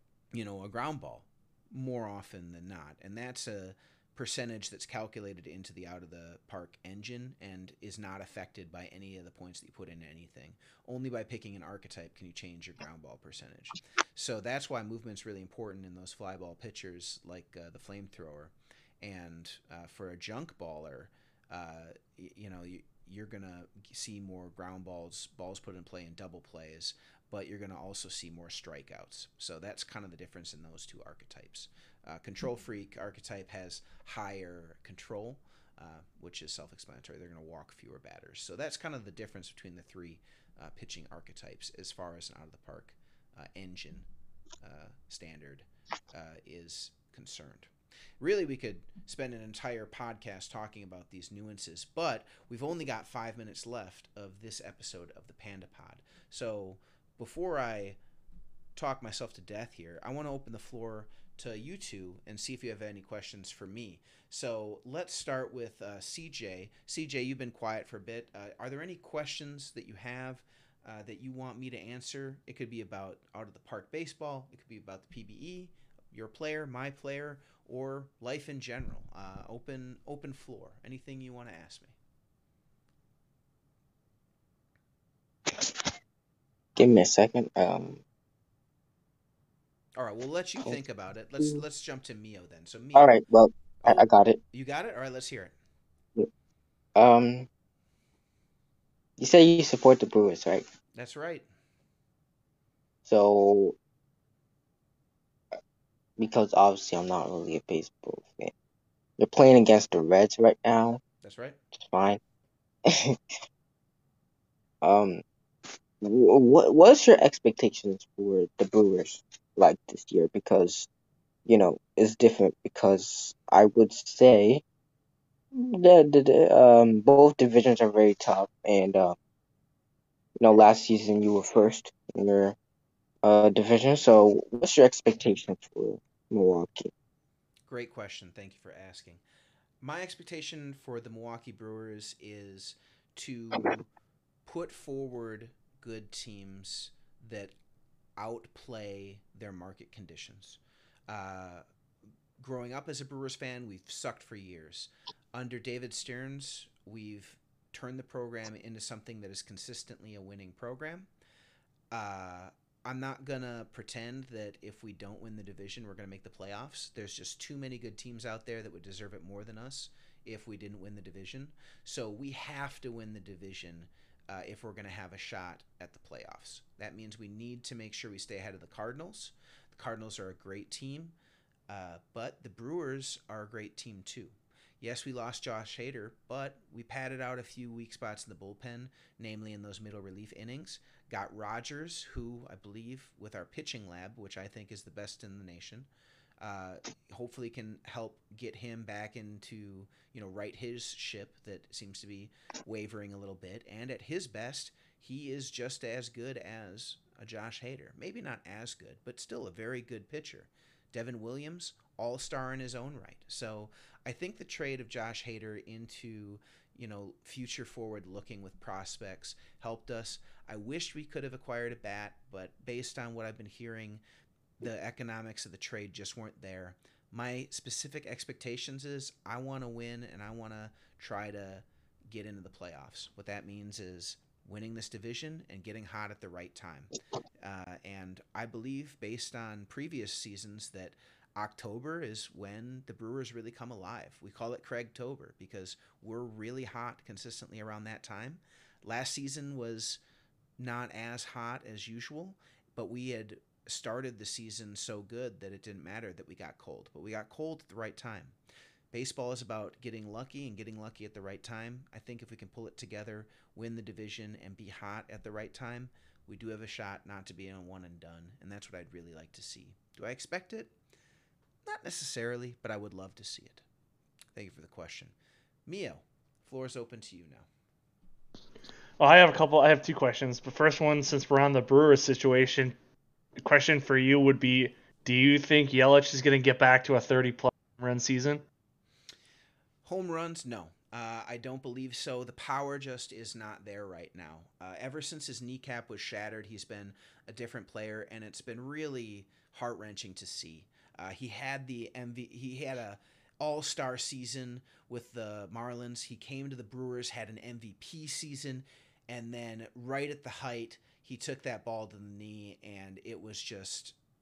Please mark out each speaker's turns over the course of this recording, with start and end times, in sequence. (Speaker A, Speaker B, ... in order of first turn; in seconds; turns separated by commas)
Speaker A: 0.3-44.1, Speaker A: 44.6-58.0, Speaker A: 58.8-82.0, Speaker B: 85.5-85.9, Speaker B: 86.8-88.0, Speaker A: 90.0-93.2, Speaker B: 92.9-94.4, Speaker A: 93.8-95.5, Speaker B: 97.0-97.5, Speaker B: 99.2-100.7, Speaker A: 100.9-101.5, Speaker B: 103.0-103.8, Speaker B: 106.2-108.5, Speaker B: 109.2-111.0, Speaker A: 111.2-111.6, Speaker B: 111.7-112.2, Speaker B: 112.9-113.2, Speaker B: 114.8-120.9, Speaker B: 121.5-124.6, Speaker B: 125.5-129.2, Speaker B: 130.4-132.6, Speaker B: 133.2-136.9, Speaker A: 137.7-139.2, Speaker A: 139.8-143.9, Speaker A: 144.5-147.5, Speaker A: 148.2-151.6, Speaker A: 152.4-161.1, Speaker A: 161.9-181.2, Speaker A: 181.7-195.9, Speaker A: 196.4-224.0, Speaker A: 224.6-250.0, Speaker A: 250.6-258.4, Speaker A: 258.9-270.7, Speaker A: 271.6-273.6, Speaker A: 274.4-275.1, Speaker A: 275.7-277.5, Speaker C: 279.0-282.8, Speaker C: 283.4-288.4, Speaker A: 289.8-314.0